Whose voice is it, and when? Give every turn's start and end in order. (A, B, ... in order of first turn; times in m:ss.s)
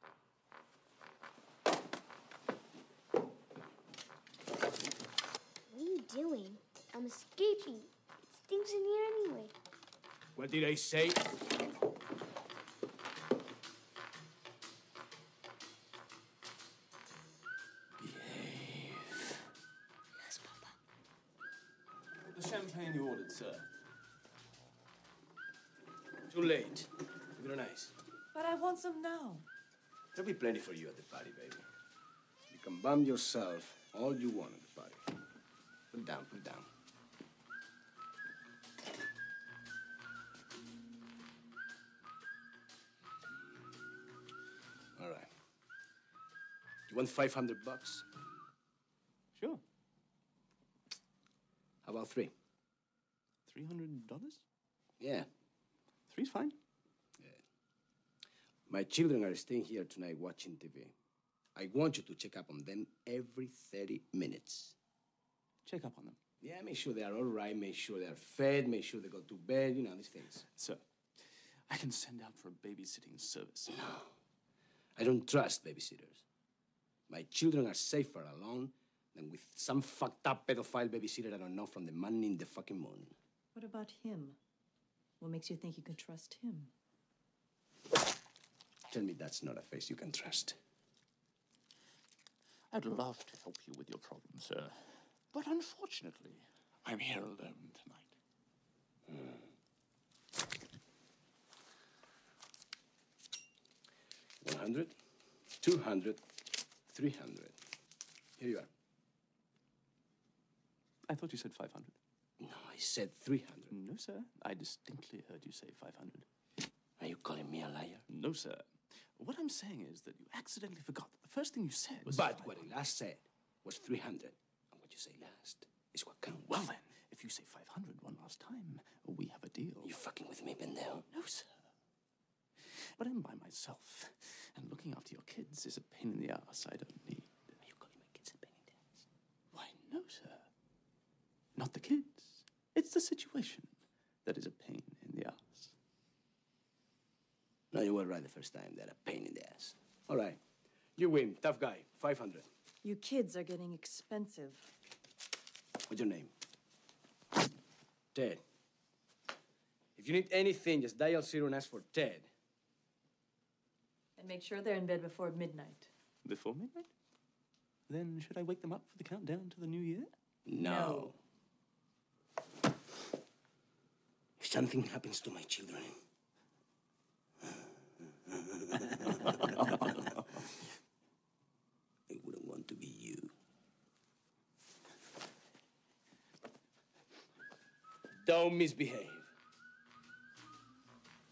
0:05.7-0:09.6 A
0:10.4-0:11.2 B
0:18.0-0:19.2 B
0:20.2-0:20.7 A
0:22.3-0:23.6 C
0:26.3-0:27.9 B
0:28.3-0:29.5 D
0:30.1-0:31.7 B
0:32.5-0:35.0 B
0:35.9-0:36.7 B
0:45.0-0:45.3 B
0:46.9-0:48.0 B
0:49.4-0:49.6 C
0:51.8-0:52.3 B
0:53.5-0:54.4 C
0:55.0-0:55.3 B
0:56.1-0:56.6 C
0:58.7-1:00.9 B
1:01.6-1:04.8 B
1:05.6-1:06.2 C
1:06.4-1:10.4 B
1:10.4-1:13.8 C
1:15.0-1:16.2 B
1:17.1-1:23.1 B
1:23.5-1:24.4 D
1:25.2-1:26.7 D
1:28.9-1:30.6 B
1:32.7-1:38.1 C
1:44.4-1:45.0 B
1:45.6-1:46.2 B
1:46.9-1:47.6 B
1:48.4-1:48.7 B
1:51.1-1:52.0 C
1:52.4-1:53.7 B
1:53.7-1:56.3 C
1:57.0-1:58.0 B
1:58.1-2:02.6 C
2:02.1-2:06.5 B
2:06.5-2:09.9 C
2:09.8-2:11.1 B
2:11.1-2:11.6 C
2:12.6-2:17.6 C
2:17.6-2:18.7 B
2:19.5-2:20.5 C
2:21.6-2:25.7 C
2:27.7-2:30.4 B
2:31.0-2:32.4 B
2:32.8-2:34.7 D
2:35.9-2:36.3 B
2:38.1-2:38.4 B
2:40.0-2:42.3 B
2:44.2-2:45.9 D
2:46.2-2:46.9 C
2:47.9-2:50.1 C
2:50.4-2:51.2 B
2:50.6-2:51.1 D
2:54.4-2:56.0 B
2:58.3-2:59.6 B
3:02.1-3:03.3 B
3:08.2-3:09.3 B